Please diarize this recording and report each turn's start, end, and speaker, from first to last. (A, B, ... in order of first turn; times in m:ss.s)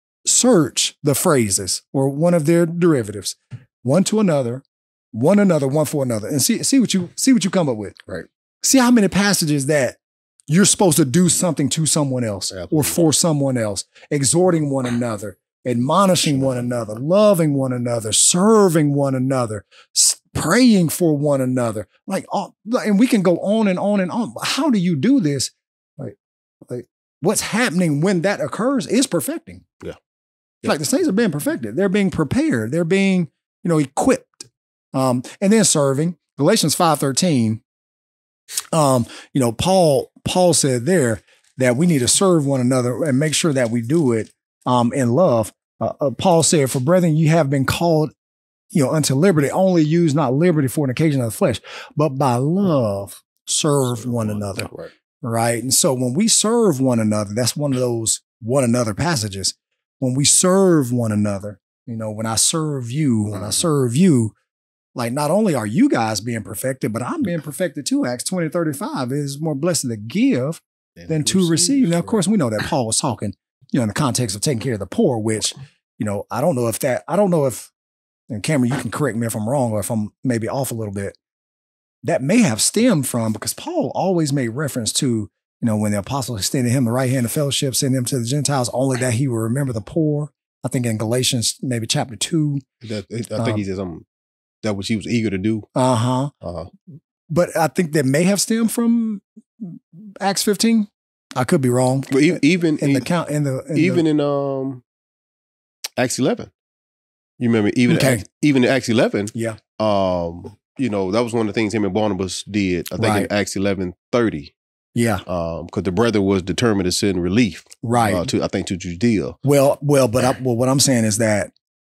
0:00.2-0:08.0 A
0:08.6-0:10.0 A
0:10.5-0:29.7 A
0:12.5-0:13.0 B
0:30.6-0:37.6 A
0:38.7-0:48.1 A
0:48.7-0:54.7 A
0:54.0-0:54.9 B
0:55.2-1:04.3 A
1:03.3-1:03.6 B
1:05.0-1:17.7 A
1:18.3-1:21.2 A
1:22.0-1:32.6 A
1:32.8-1:34.0 B
1:33.4-1:33.6 A
1:34.6-1:35.7 B
1:35.8-1:36.3 A
1:36.4-1:36.7 B
1:37.3-1:44.0 A
1:42.1-1:43.1 B
1:43.8-1:44.8 B
1:46.0-1:46.5 B
1:47.4-1:54.5 B
1:47.9-1:48.2 A
1:49.3-1:49.6 A
1:53.0-1:53.3 A
1:55.0-1:55.2 A
1:55.3-1:59.4 B
1:57.8-1:58.3 A
1:59.4-2:01.5 A